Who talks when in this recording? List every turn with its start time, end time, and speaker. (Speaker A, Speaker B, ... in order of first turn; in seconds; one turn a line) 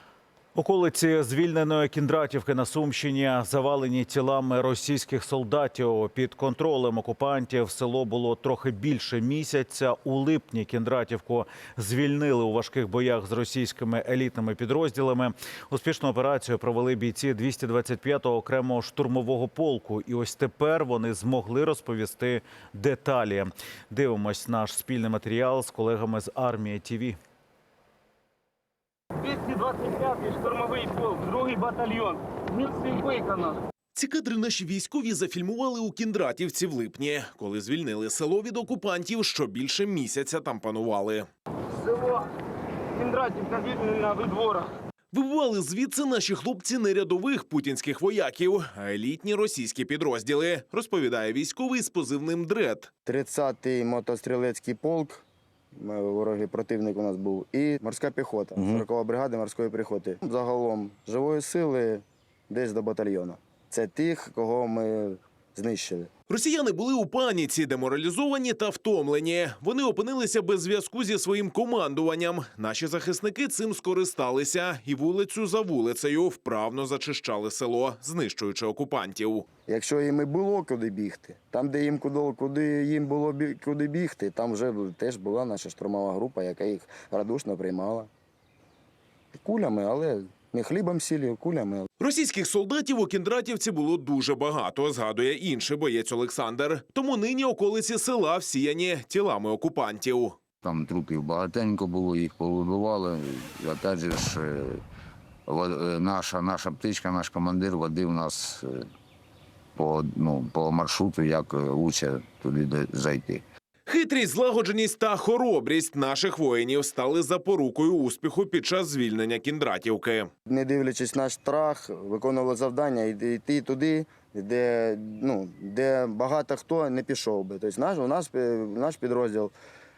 Speaker A: 0.5-27.2
Speaker B: 29.2-33.6
Speaker C: 34.0-41.3
Speaker B: 41.8-42.2
Speaker B: 42.9-44.7
Speaker C: 45.1-52.9
Speaker D: 53.0-66.1
Speaker E: 58.6-58.8
Speaker C: 66.3-79.4
Speaker D: 79.7-88.1
Speaker D: 89.3-91.9
Speaker C: 92.0-100.4
Speaker E: 100.6-104.8
Speaker E: 105.5-108.9
Speaker E: 109.8-113.4
Speaker C: 113.9-120.3
Speaker D: 120.5-129.5